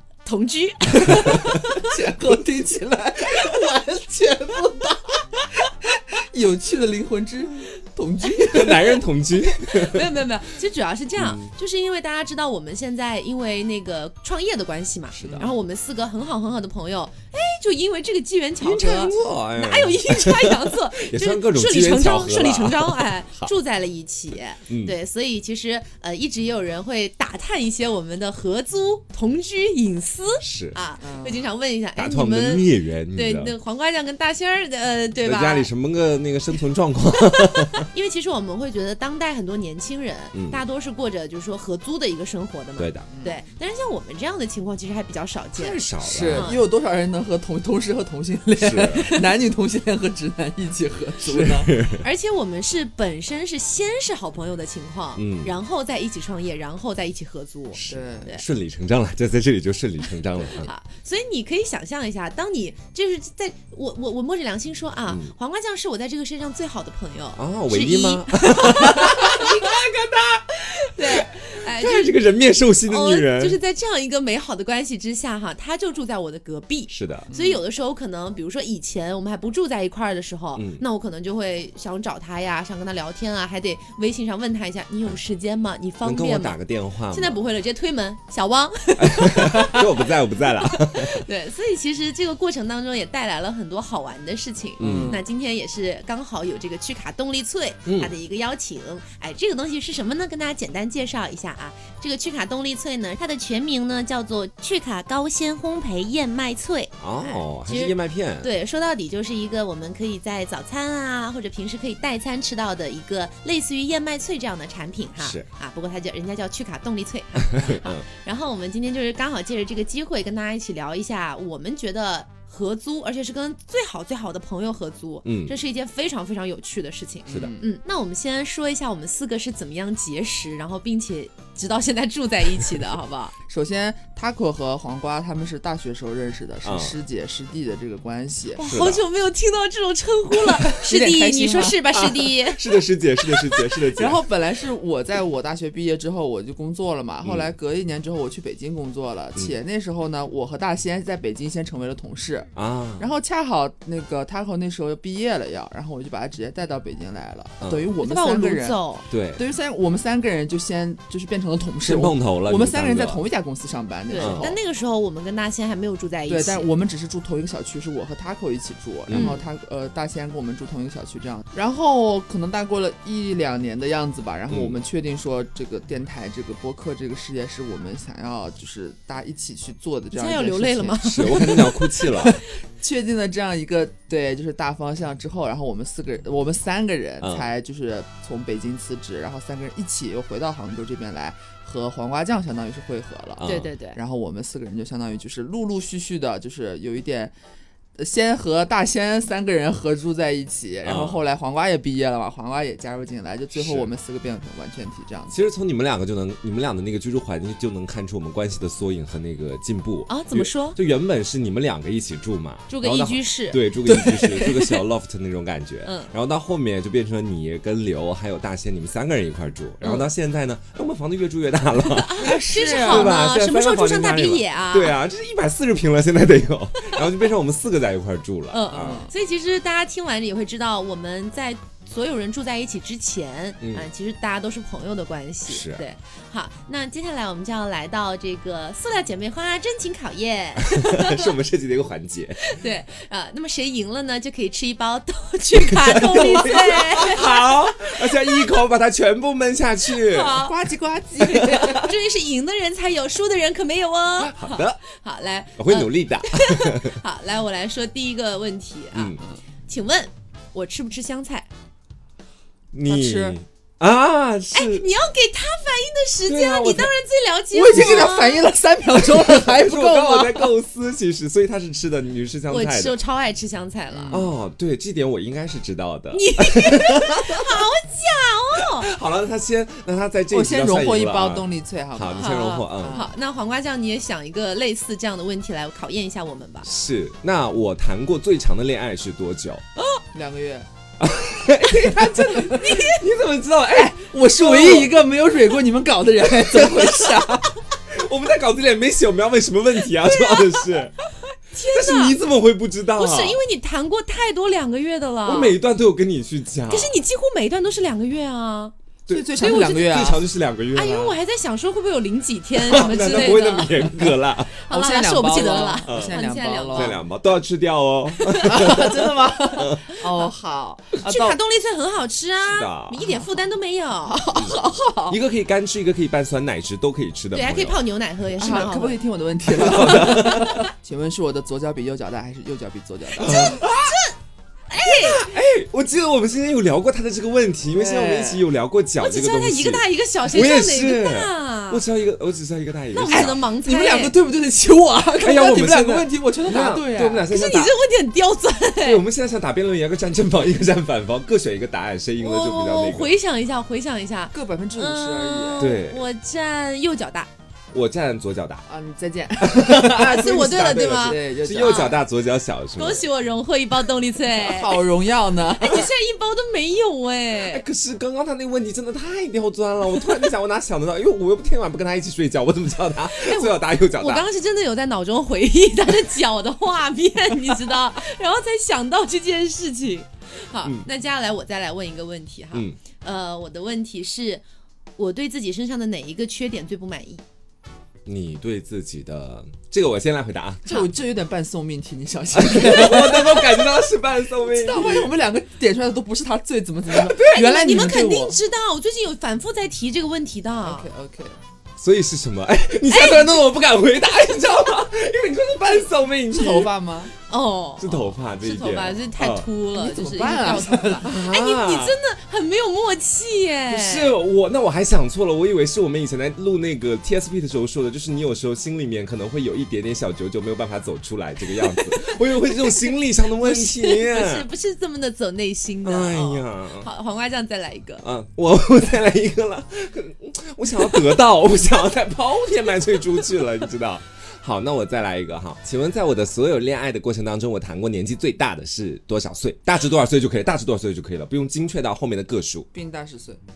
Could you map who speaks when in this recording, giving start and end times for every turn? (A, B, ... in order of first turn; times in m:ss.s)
0:00.2-0:01.9 A
0:01.4-0:09.0 B
0:08.5-0:10.1 C
0:09.6-0:35.7 A
0:11.2-0:11.5 C
0:15.2-0:15.5 C
0:15.2-0:15.5 B
0:18.6-0:23.5 C
0:24.7-0:25.0 C
0:30.4-0:30.8 C
0:31.0-0:31.5 B
0:32.0-0:33.6 C
0:35.2-0:37.9 C
0:37.2-0:46.6 A
0:40.3-0:40.6 C
0:42.8-0:43.1 C
0:43.1-0:43.4 B
0:45.6-0:46.5 C
0:46.0-0:51.7 B
0:48.6-0:49.3 C
0:51.2-0:52.1 C
0:52.0-0:58.4 A
0:55.2-0:55.5 C
0:57.7-1:00.7 C
0:57.9-0:58.3 B
1:00.6-1:09.8 A
1:05.1-1:05.3 C
1:07.4-1:13.6 C
1:10.9-1:12.2 A
1:12.8-1:26.6 A
1:16.9-1:17.3 C
1:17.3-1:17.6 B
1:20.6-1:20.8 C
1:26.0-1:27.4 C
1:27.1-1:29.8 A
1:29.0-1:31.2 C
1:30.6-2:13.3 A
1:34.8-1:35.2 C
1:34.8-1:35.2 B
1:37.8-1:38.1 C
1:47.0-1:48.5 C
1:55.2-1:55.5 C
1:57.5-1:58.0 C
2:05.2-2:05.5 C
2:07.3-2:07.6 C
2:07.3-2:07.7 B
2:13.5-2:18.7 B
2:16.6-2:17.0 C
2:18.6-2:23.6 A
2:18.6-2:19.0 C
2:20.6-2:21.8 B
2:21.9-2:24.2 C
2:24.0-2:38.8 B
2:27.2-2:27.5 C
2:32.6-2:33.1 C
2:37.6-2:37.9 C
2:38.0-2:39.0 A
2:39.1-2:39.4 C
2:39.4-2:44.6 B
2:41.8-2:43.2 C
2:44.1-2:46.7 A
2:44.2-2:44.6 C
2:46.3-3:17.3 B
2:49.1-2:49.4 C
2:49.1-2:49.5 A
2:54.5-2:54.8 C
3:00.1-3:01.8 A
3:01.0-3:02.4 C
3:07.2-3:07.5 C
3:13.4-3:13.7 C
3:13.4-3:14.0 A
3:18.0-3:25.4 B
3:20.8-3:21.2 C
3:23.5-3:23.9 C
3:25.3-3:49.1 C
3:30.1-3:30.8 A
3:32.7-3:33.6 A
3:33.8-3:34.8 B
3:35.8-3:36.1 A
3:39.8-3:40.1 A
3:41.8-3:45.0 A
3:42.2-3:43.1 B
3:48.5-4:01.3 A
3:48.7-3:49.1 B
3:53.6-3:53.9 C
3:55.5-3:55.8 C
4:00.7-4:02.4 C
4:02.4-4:08.5 A
4:05.7-4:10.5 C
4:09.9-4:10.6 A
4:10.4-4:11.8 B
4:11.2-4:21.5 A
4:11.4-4:11.8 C
4:14.2-4:14.8 C
4:15.6-4:17.0 C
4:18.9-4:19.2 C
4:22.7-4:24.8 C
4:22.9-4:23.4 B
4:24.5-4:28.5 A
4:26.3-4:26.9 C
4:27.5-4:30.6 B
4:29.0-4:33.0 C
4:32.5-4:34.2 A
4:33.9-4:34.3 B
4:34.1-4:37.6 C
4:36.1-4:38.9 A
4:38.6-4:43.0 C
4:40.3-4:43.1 B
4:42.2-4:46.7 A
4:46.6-4:49.6 C
4:50.1-4:50.7 B
4:51.0-4:55.0 C
4:51.8-4:52.6 B
4:52.4-4:53.0 A
4:53.7-4:57.6 B
4:56.4-4:57.3 C
4:57.9-5:01.0 C
5:01.5-5:02.2 A
5:01.7-5:03.4 C
5:03.0-5:05.6 A
5:05.3-5:07.0 C
5:06.7-5:08.7 A
5:09.1-5:11.2 C
5:09.1-5:10.2 B
5:09.4-5:10.1 A
5:10.8-5:17.0 A
5:12.6-5:14.5 C
5:14.7-5:17.0 B
5:15.9-5:16.2 C
5:16.7-5:19.8 C
5:18.2-5:18.7 A
5:18.4-5:21.4 B
5:21.0-5:24.5 A
5:22.4-5:23.0 C
5:23.0-5:23.3 B
5:24.1-5:25.2 B
5:24.4-5:27.8 C
5:27.3-5:29.0 A
5:28.4-5:33.6 B
5:29.5-5:30.6 C
5:29.8-5:30.7 A
5:33.2-5:34.1 A
5:33.2-5:34.0 C
5:34.7-5:35.3 A
5:34.8-5:43.4 C
5:37.7-5:38.5 B
5:39.0-5:41.8 A
5:42.9-5:44.2 A
5:43.1-5:47.3 B
5:45.2-5:47.7 C
5:47.3-5:49.0 A
5:48.8-5:53.1 C
5:52.2-5:57.3 A
5:54.3-5:55.8 B
5:55.6-5:56.0 C
5:57.7-5:58.6 C
5:58.7-6:02.0 B
5:59.4-6:03.1 C
6:00.0-6:02.0 A
6:02.8-6:04.9 A
6:04.3-6:05.9 B
6:05.6-6:07.7 A
6:07.4-6:14.3 C
6:13.1-6:24.4 A
6:22.5-6:22.8 C
6:25.0-6:27.2 A
6:28.1-6:30.7 C
6:30.7-6:33.8 B
6:32.3-6:35.1 C
6:34.4-6:38.4 B
6:37.0-6:37.4 C
6:37.2-6:40.9 A
6:40.6-6:41.4 B
6:41.8-6:46.7 C
6:42.9-6:43.3 A
6:46.3-6:47.1 B
6:47.3-6:54.2 A
6:47.8-6:49.5 C
6:49.7-6:51.1 B
6:51.0-6:52.0 C
6:53.7-7:04.5 C
7:01.8-7:02.8 A
7:03.4-7:08.1 A
7:05.8-7:06.9 C
7:08.0-7:22.7 C
7:22.7-7:23.4 B